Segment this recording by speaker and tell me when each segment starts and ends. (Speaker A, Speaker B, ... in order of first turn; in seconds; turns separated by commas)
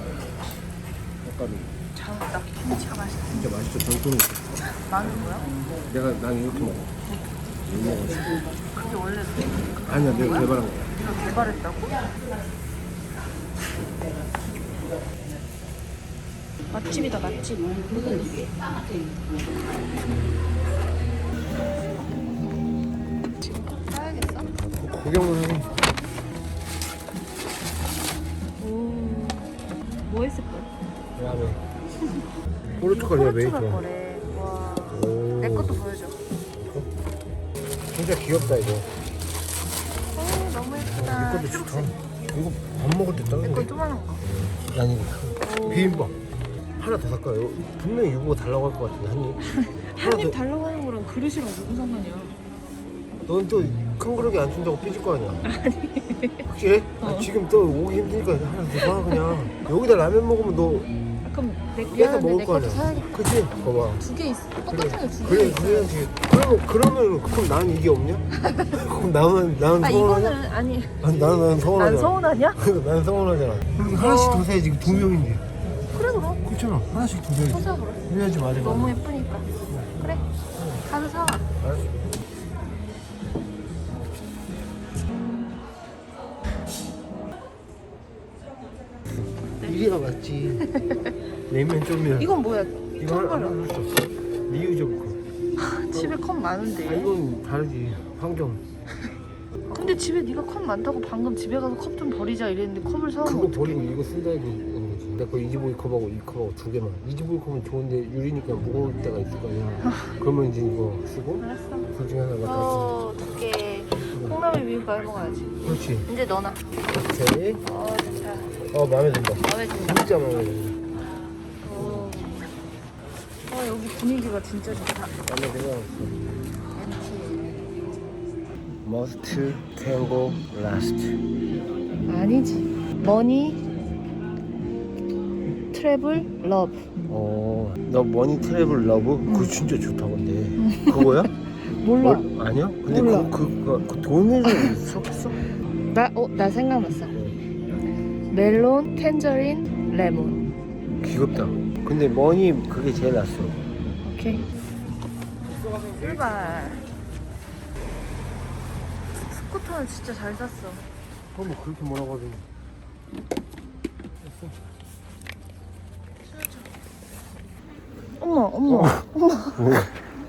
Speaker A: 1.2-1.7, Speaker B: 1.9-3.5, Speaker A: 3.3-4.7, Speaker B: 4.7-5.5, Speaker A: 5.9-6.9, Speaker A: 7.6-8.5, Speaker B: 8.6-12.1, Speaker A: 9.8-11.1, Speaker B: 16.7-18.5, Speaker B: 23.4-24.5, Speaker A: 24.5-25.8, Speaker B: 28.6-30.7, Speaker A: 31.1-31.6, Speaker A: 32.7-33.8, Speaker B: 32.8-36.2, Speaker A: 34.9-35.9, Speaker A: 36.5-36.9, Speaker A: 37.9-38.9, Speaker B: 40.1-41.9, Speaker A: 40.8-46.2, Speaker B: 43.4-44.2, Speaker B: 45.4-46.1, Speaker A: 46.8-49.4, Speaker B: 49.5-52.4, Speaker A: 49.9-50.4, Speaker A: 53.2-55.4, Speaker B: 55.4-56.5, Speaker A: 56.5-60.9, Speaker B: 57.0-57.3, Speaker B: 58.8-59.2, Speaker B: 61.2-63.1, Speaker A: 61.8-64.0, Speaker B: 63.9-65.9, Speaker A: 64.7-70.4, Speaker B: 69.8-71.0, Speaker A: 71.0-75.5, Speaker B: 71.7-72.6, Speaker B: 73.8-74.5, Speaker B: 75.9-76.4, Speaker A: 76.4-79.0, Speaker B: 77.5-78.1, Speaker B: 78.6-79.5, Speaker A: 80.6-80.8, Speaker B: 80.8-81.5, Speaker A: 81.6-81.9, Speaker A: 89.1-90.7, Speaker B: 90.6-91.1, Speaker A: 91.5-92.4, Speaker B: 92.2-93.6, Speaker A: 93.0-95.2, Speaker B: 95.6-97.1, Speaker A: 96.8-98.6, Speaker B: 99.7-103.8, Speaker A: 103.2-113.0, Speaker B: 111.4-111.9, Speaker B: 112.4-116.7, Speaker A: 114.0-114.4, Speaker A: 115.6-116.1, Speaker A: 116.9-117.6, Speaker B: 117.6-118.6, Speaker A: 118.7-120.8, Speaker B: 119.4-120.0, Speaker B: 121.6-122.5, Speaker A: 121.7-122.2, Speaker B: 123.5-125.2, Speaker A: 125.2-126.2, Speaker B: 126.7-127.5, Speaker A: 128.8-131.2, Speaker B: 132.1-133.6, Speaker B: 135.7-137.0, Speaker A: 137.1-141.3, Speaker B: 139.2-139.6, Speaker B: 140.6-142.3, Speaker A: 142.0-145.4, Speaker B: 142.8-143.3, Speaker B: 145.9-147.2, Speaker A: 147.1-147.4, Speaker B: 148.3-150.5, Speaker A: 151.0-153.6, Speaker B: 154.0-154.4, Speaker A: 155.4-156.7, Speaker B: 155.9-156.8, Speaker B: 159.3-160.8, Speaker A: 161.3-162.4, Speaker B: 168.2-169.7, Speaker A: 168.7-169.9